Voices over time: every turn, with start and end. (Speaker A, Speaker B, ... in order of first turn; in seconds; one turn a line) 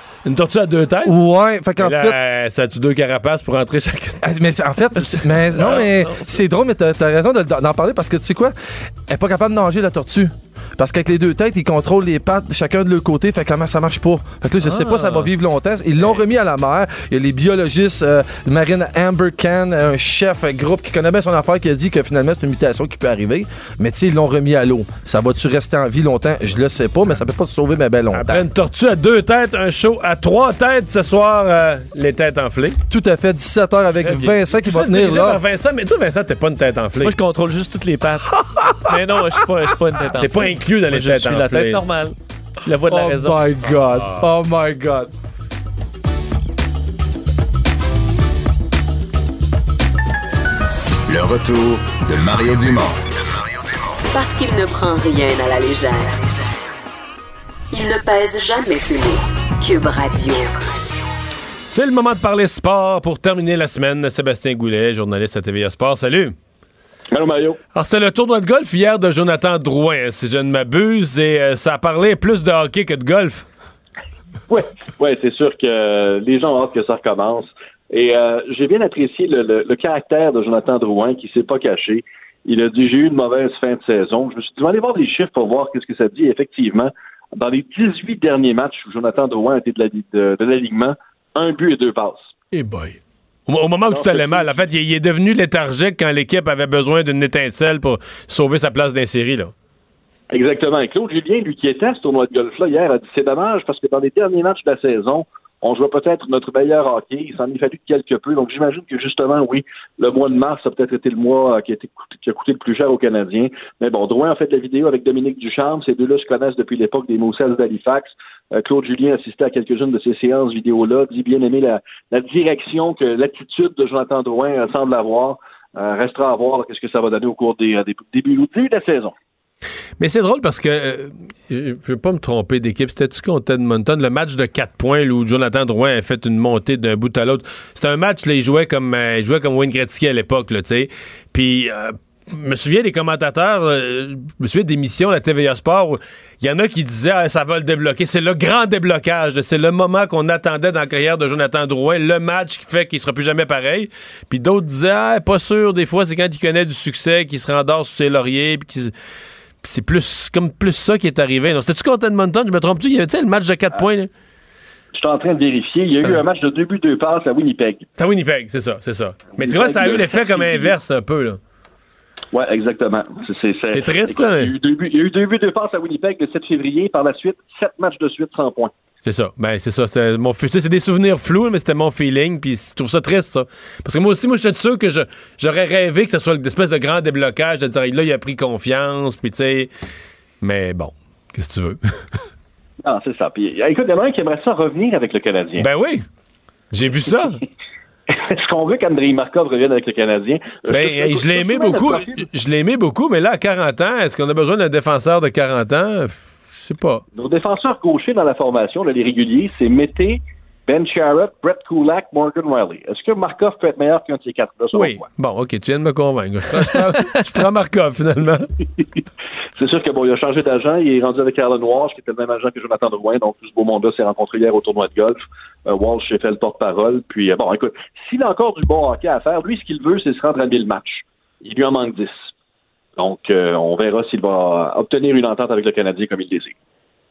Speaker A: 0.2-1.2
Speaker B: 1.1-2.1
Speaker A: 1.8-4.6
Speaker B: 4.2-28.4
Speaker C: 5.0-6.3
Speaker A: 5.6-5.9
Speaker C: 14.6-15.3
Speaker A: 28.1-32.8
Speaker B: 32.9-35.4
Speaker C: 34.0-34.4
Speaker A: 34.5-37.1
Speaker C: 37.0-38.3
Speaker C: 38.9-43.5
Speaker A: 40.2-41.8
Speaker B: 42.9-45.1
Speaker A: 43.8-44.3
Speaker D: 51.1-53.1
Speaker E: 54.1-56.2
Speaker E: 57.7-60.5
Speaker A: 61.7-66.4
Speaker F: 67.1-67.6
Speaker A: 67.8-73.5
Speaker F: 74.5-92.3
Speaker A: 92.5-99.5
Speaker F: 93.9-94.5
Speaker F: 100.3-129.1
Speaker A: 130.0-158.9
Speaker A: 159.6-164.1
Speaker F: 164.9-167.9
Speaker A: 168.0-171.4
Speaker F: 169.4-170.7
Speaker F: 172.3-178.7
Speaker A: 173.7-174.5
Speaker A: 179.1-189.7
Speaker A: 190.4-191.8
Speaker F: 192.8-195.7
Speaker A: 195.6-196.1
Speaker A: 196.7-197.4
Speaker F: 198.1-202.2
Speaker A: 200.7-207.0
Speaker F: 207.2-215.1
Speaker A: 214.7-218.5
Speaker F: 219.6-232.3
Speaker F: 233.0-236.6